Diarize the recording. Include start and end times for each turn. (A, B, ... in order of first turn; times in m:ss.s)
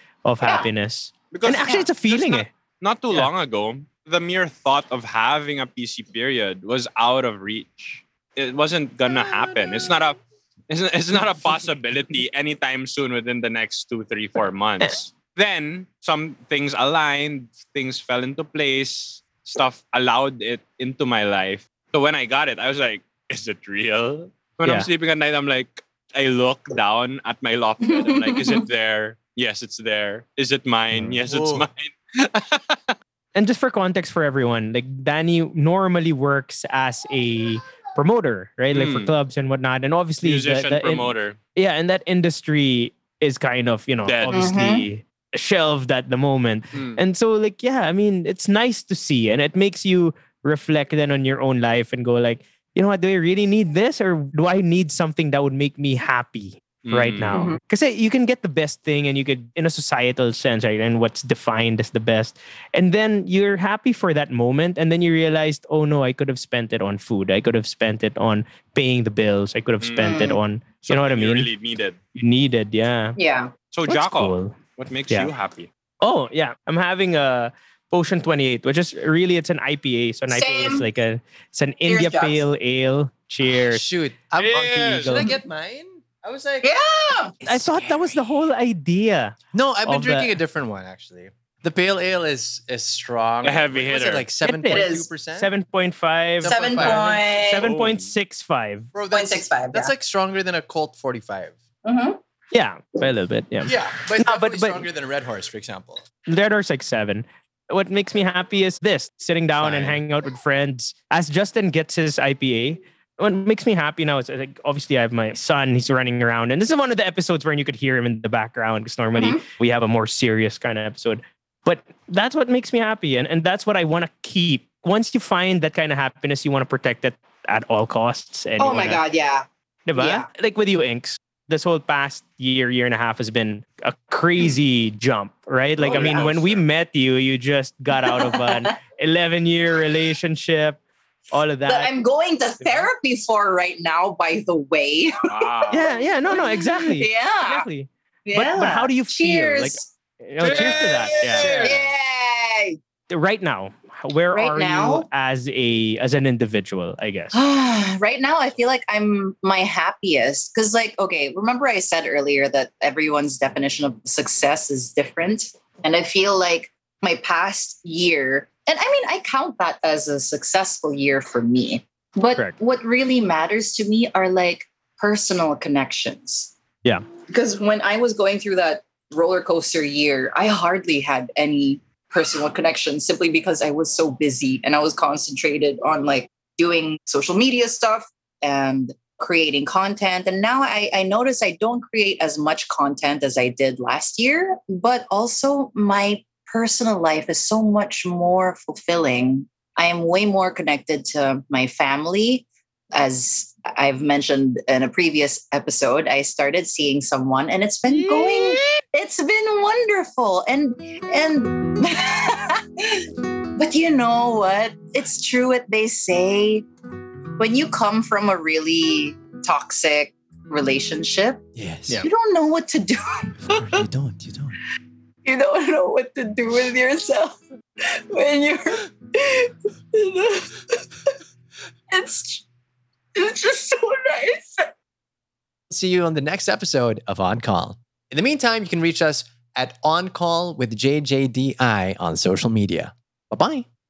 0:00.2-0:02.5 A
0:00.4-0:00.7 B
0:01.3-0:32.9 C
0:27.8-0:28.6 B
0:31.0-0:31.7 D
0:33.4-1:11.5 A
0:38.7-0:39.1 C
0:40.2-0:41.4 C
0:44.0-0:44.5 C
0:44.3-0:44.9 B
0:46.7-0:47.0 C
0:56.8-0:57.4 C
0:57.3-0:57.6 B
1:09.8-1:10.2 C
1:10.0-1:10.4 B
1:10.8-1:12.0 C
1:12.2-1:13.2 A
1:13.2-1:13.5 B
1:13.7-1:15.7 C
1:13.9-1:14.6 A
1:16.0-1:23.8 A
1:20.3-1:20.9 B
1:21.9-1:22.4 B
1:23.4-1:26.7 D
1:24.4-1:25.2 C
1:24.5-1:25.3 A
1:26.6-1:27.4 B
1:27.4-1:28.3 D
1:27.4-1:30.4 A
1:29.5-1:35.5 D
1:33.4-1:34.3 C
1:34.4-1:38.9 A
1:34.6-1:35.1 B
1:36.4-1:37.2 D
1:36.4-1:37.7 B
1:37.6-1:38.1 C
1:38.9-1:41.6 D
1:39.1-1:39.9 B
1:41.8-1:42.2 B
1:42.5-1:43.7 A
1:43.6-1:46.0 D
1:44.2-1:44.9 A
1:46.3-2:09.0 A
1:49.6-1:50.0 D
1:59.2-1:59.4 B
2:08.6-2:10.3 B
2:09.9-2:20.8 A
2:15.8-2:16.5 D
2:15.9-2:16.3 B
2:15.9-2:16.6 C
2:18.0-2:18.7 B
2:21.3-2:21.9 A
2:21.6-2:25.1 B
2:22.6-2:22.9 A
2:25.3-2:26.0 C
2:25.7-2:31.7 A
2:25.8-2:27.7 B
2:28.2-2:29.9 B
2:30.4-2:31.8 C
2:31.3-2:31.8 D
2:31.4-2:32.8 B
2:33.1-2:37.4 A
2:34.3-2:35.1 B
2:37.3-2:56.5 B
2:57.3-3:36.7 B
3:27.9-3:28.6 C
3:37.4-3:41.4 B
3:41.6-3:42.0 D
3:42.0-3:43.7 B
3:43.5-3:44.6 D
3:45.2-3:47.4 B
3:48.0-3:51.1 B
3:51.9-3:52.4 B
3:53.2-3:54.7 B
3:55.7-4:03.7 D